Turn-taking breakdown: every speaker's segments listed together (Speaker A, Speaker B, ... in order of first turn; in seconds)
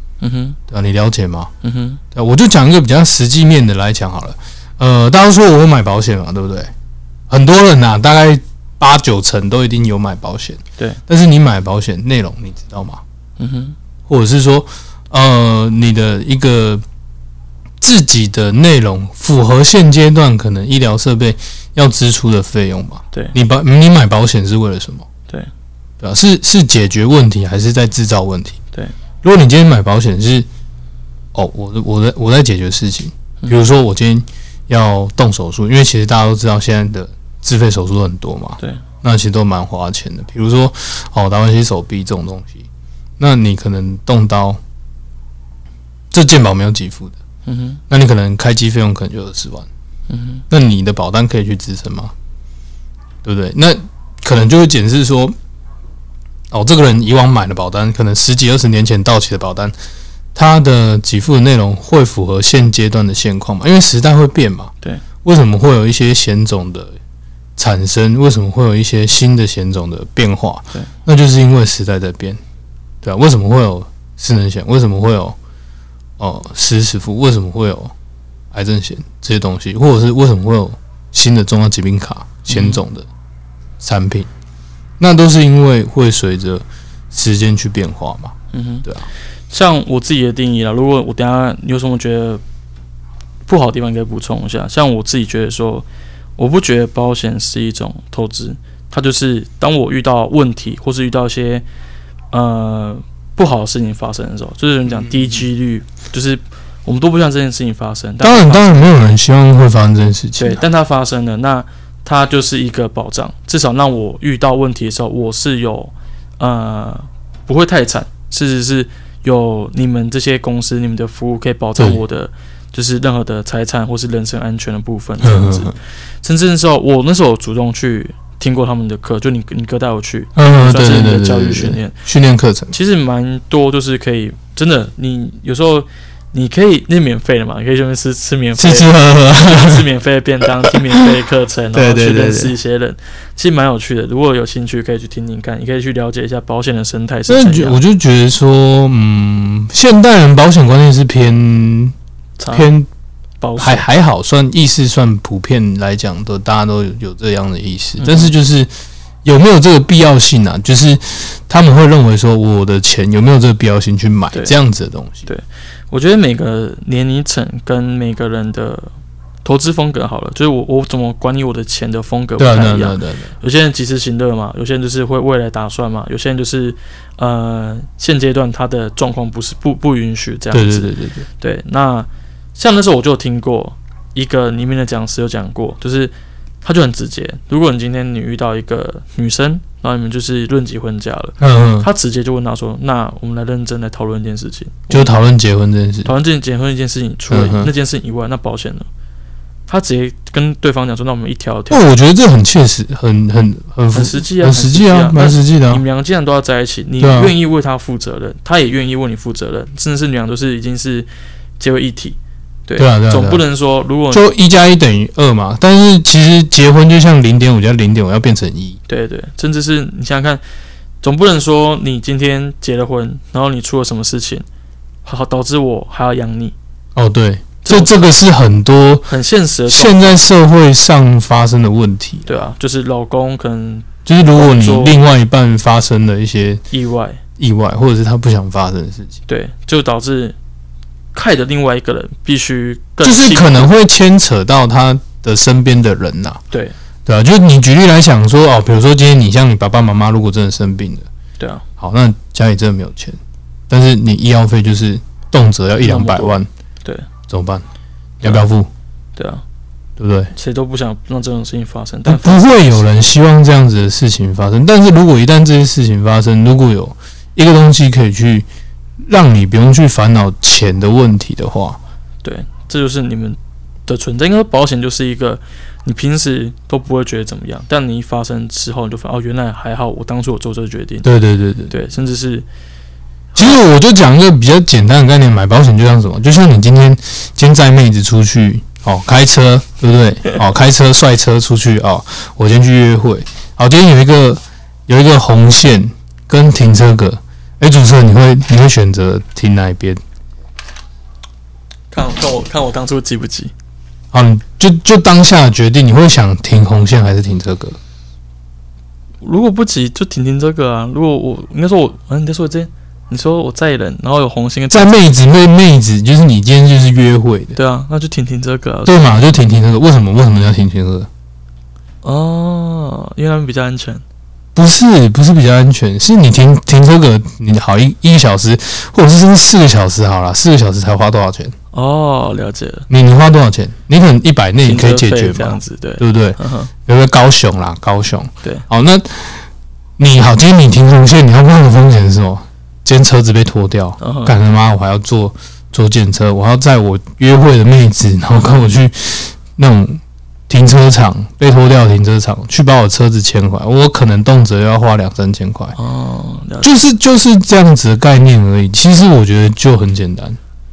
Speaker A: 0.2-0.6, 1.6-2.0, 13.4-13.8, 47.5-47.8, 50.1-50.4, 82.5-82.8, 88.5-88.8, 89.5-92.4, 93.5-95.8, 96.4-101.6, 102.3-109.0, 110.4-125.7, 126.2-131.9, 132.7-147.8, 152.4-152.7, 153.4-153.8, 158.0-158.3, 165.2-168.9, 169.4-195.1, 196.0-198.9, 199.7-201.8, 203.9-211.1, 211.6-214.3, 218.9-220.4, 221.0-224.4, 225.0-226.5, 227.6-228.0, 229.1-230.2, 232.2-235.0, 236.7-237.2, 239.3-240.4, 241.1-243.7, 251.4-251.6, 255.8-257.1, 259.1-259.4, 260.3-262.9, 272.2-281.1, 281.7-282.4, 301.9-303.5, 309.2-315.0, 317.6-319.2, 322.0-324.0, 331.7-332.9, 334.6-336.7, 344.0-344.4, 355.8-356.8
Speaker B: 0.7-1.5, 2.1-6.7, 7.3-13.0, 14.1-16.8, 17.8-25.1, 26.0-28.6, 29.2-30.5, 31.3-42.6, 43.2-44.6, 46.1-47.1, 47.9-49.7, 50.5-52.1, 53.2-55.3, 56.5-59.7, 60.3-64.7, 65.2-66.9, 67.6-72.4, 73.0-75.3, 76.2-77.9, 78.5-83.1, 83.8-84.3, 85.0-89.1, 104.9-105.4, 108.2-110.6, 121.8-122.0, 125.2-125.7, 130.3-132.7, 138.6-139.8, 141.7-142.5, 147.3-151.9, 152.5-152.9, 153.6-158.7, 159.2-165.3, 172.4-173.3, 180.5-181.2, 191.4-191.9, 194.9-196.1, 197.3-197.7, 201.7-205.8, 207.0-207.3, 212.8-213.4, 214.1-218.8, 226.9-229.1, 229.7-232.3, 234.1-236.6, 237.4-239.2, 243.0-246.4, 247.1-251.1, 251.8-253.2, 253.7-256.5, 257.3-257.6, 258.2-258.7, 260.0-260.3, 262.1-268.5, 269.1-271.8, 281.0-281.7, 283.3-300.0, 304.1-307.8, 314.7-317.6, 318.9-321.1, 324.5-331.5, 332.9-339.4, 340.0-355.8, 356.6-360.4